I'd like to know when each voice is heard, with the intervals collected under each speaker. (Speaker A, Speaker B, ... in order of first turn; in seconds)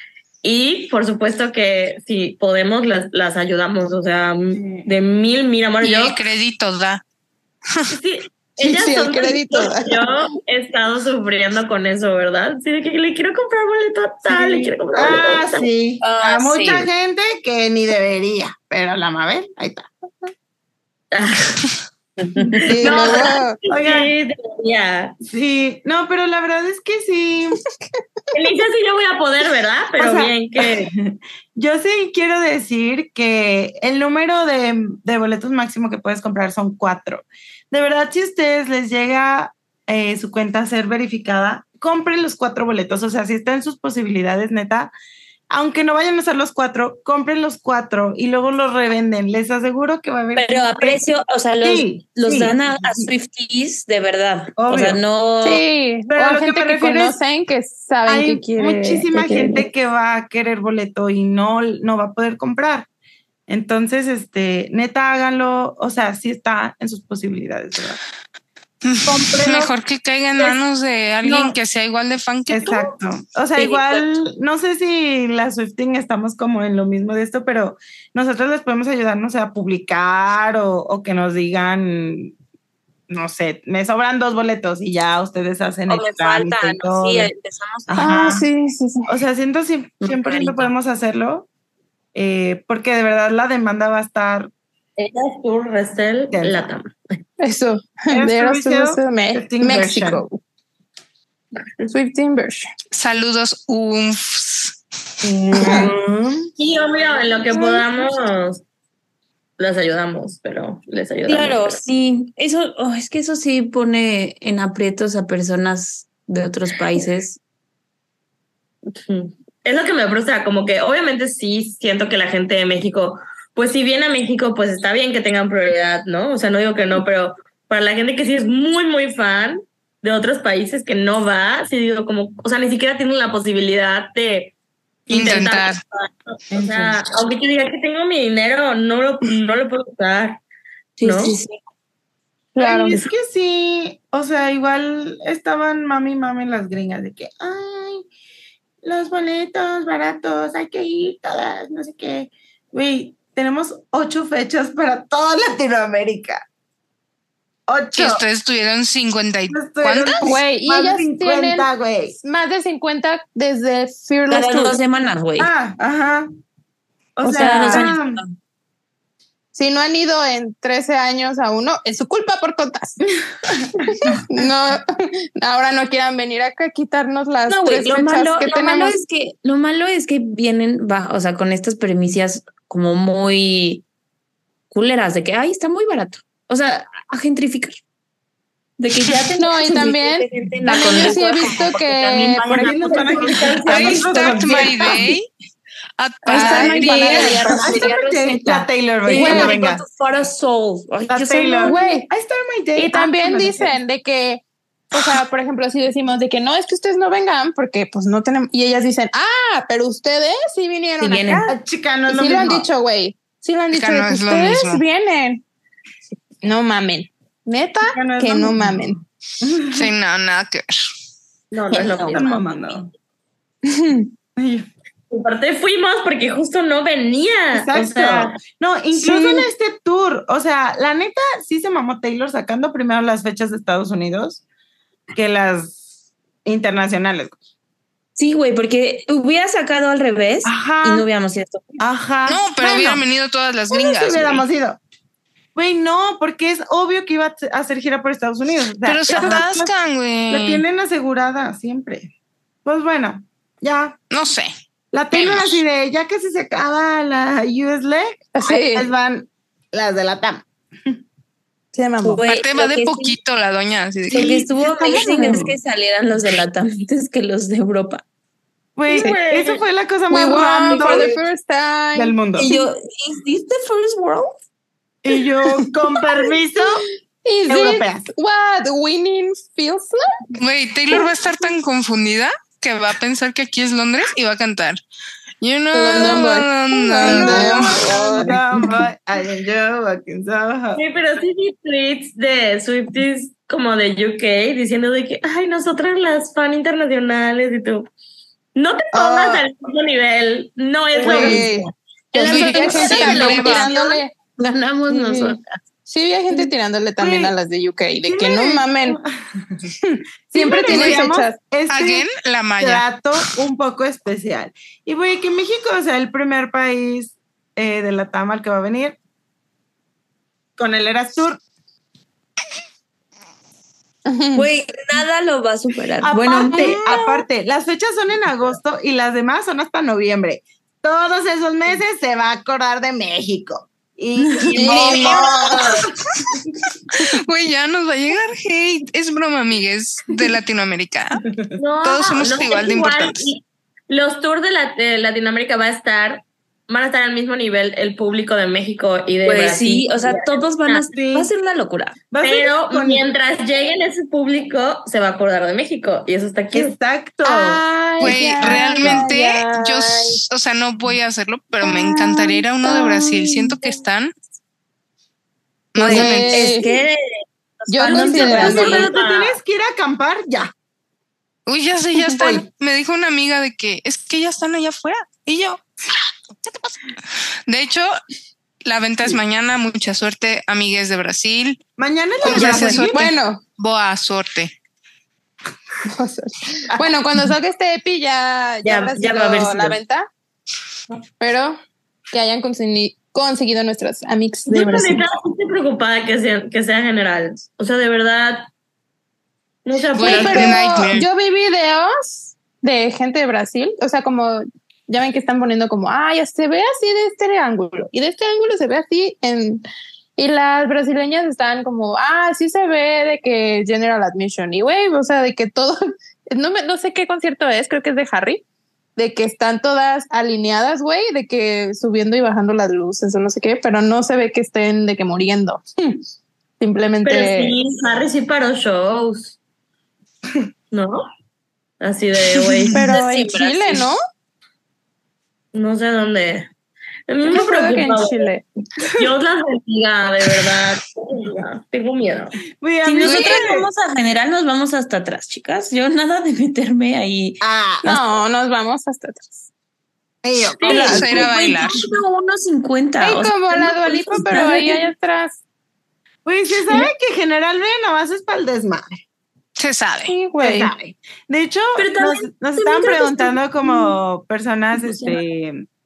Speaker A: 0.4-6.2, 7.9-15.7, 21.1-21.6, 22.8-25.2, 28.3-30.9, 95.0-96.9, 106.6-108.6, 109.6-111.8, 119.0-134.5, 135.1-140.4, 141.0-141.3, 192.7-194.7, 221.5-222.4, 225.1-228.4, 268.9-269.6, 290.7-297.9, 298.5-301.4, 302.1-304.0, 334.9-335.6, 341.6-350.9, 352.2-356.7, 367.9-369.4, 388.6-389.8, 394.5-398.5, 399.6-400.6, 427.0-429.4, 430.7-431.1, 431.8-432.8, 435.5-436.5, 437.1-438.3, 438.9-442.4
Speaker B: 4.5-4.9, 14.3-19.9, 22.4-24.1, 25.2-27.6, 29.9-44.9, 45.5-51.0, 51.6-53.1, 54.5-55.0, 56.1-57.2, 58.0-62.9, 63.5-68.0, 69.0-69.7, 71.2-71.5, 72.5-82.3, 83.1-87.3, 87.9-88.5, 89.1-91.5, 92.1-94.5, 96.3-96.6, 98.1-100.2, 105.2-106.5, 136.5-136.9, 142.6-148.1, 148.8-156.4, 157.7-158.2, 159.5-162.2, 165.4-166.3, 167.2-168.2, 173.0-174.2, 192.4-195.0, 197.1-199.8, 201.1-203.8, 211.5-212.7, 217.8-219.9, 222.1-222.9, 224.3-224.7, 227.5-234.4, 235.1-235.8, 236.4-237.4, 240.4-241.1, 241.8-243.0, 243.7-244.8, 245.5-249.7, 250.3-252.1, 252.6-254.0, 254.9-261.0, 264.2-265.5, 268.8-271.1, 271.9-272.5, 275.0-276.9, 277.5-278.1, 287.0-290.8, 301.0-301.4, 307.0-307.3, 308.0-309.7, 310.3-312.1, 312.6-319.0, 320.6-321.4, 326.0-335.9, 341.3-341.6, 350.9-351.3, 352.1-353.0, 356.5-359.1, 367.9-370.5, 372.1-372.4, 381.8-383.1, 442.6-443.7, 447.4-448.0, 450.2-451.3, 456.2-459.0, 460.4-465.6
Speaker C: 5.8-7.0, 68.8-72.9, 102.9-104.8, 135.1-135.8, 157.9-160.3, 193.7-195.3, 196.0-197.5, 213.7-214.8, 219.7-220.8, 242.2-244.4, 248.8-250.6, 254.1-254.5, 255.1-255.6, 262.2-264.5, 280.4-284.8, 285.4-287.8, 302.2-303.7, 310.7-311.0, 311.7-313.3, 336.9-341.2, 341.8-343.2, 358.0-364.1, 365.7-366.5, 371.5-375.6, 377.5-378.0, 378.6-381.6, 382.2-384.5, 399.9-401.1, 450.7-451.7, 459.6-460.1
Speaker D: 8.6-10.1, 22.6-23.6, 55.4-59.7, 88.0-89.1, 97.4-100.4, 101.9-102.7, 105.5-105.9, 142.6-143.0, 160.2-164.8, 167.2-167.9, 169.5-173.0, 173.7-179.0, 189.4-193.3, 196.2-197.9, 199.1-199.6, 201.6-202.1, 202.8-211.5, 212.1-215.4, 216.4-219.0, 223.6-224.1, 228.9-229.5, 258.3-258.9, 261.7-262.2, 270.1-272.6, 277.2-280.3, 285.7-288.7, 298.9-299.4, 301.0-304.1, 304.9-309.0, 309.8-311.4, 324.1-324.5, 326.5-327.0, 334.5-335.6, 357.2-360.2, 361.6-363.8, 365.8-366.7, 367.7-368.9, 382.2-383.4, 385.9-390.1, 391.2-391.6, 392.1-395.0, 400.0-409.6, 410.2-418.4, 418.9-426.0, 426.6-427.5, 432.7-434.0, 437.2-438.4, 447.8-449.5, 450.6-451.2, 453.0-455.4, 460.1-460.7
Speaker E: 16.0-16.9, 50.3-55.6, 73.5-74.1, 85.9-88.1, 90.0-90.7, 111.3-117.4, 141.0-141.6, 164.3-165.5, 167.2-168.3, 177.5-183.8, 184.7-187.8, 188.8-194.0, 196.3-201.8, 211.0-211.5, 221.7-222.4, 238.2-241.8, 262.0-263.2, 264.1-268.0, 270.8-271.1, 272.4-274.4, 302.8-303.3, 304.4-305.4, 324.3-327.0, 334.6-335.2, 349.2-352.0, 365.8-368.9, 432.8-433.9, 442.8-447.4, 450.6-454.8, 461.8-463.9, 464.8-465.1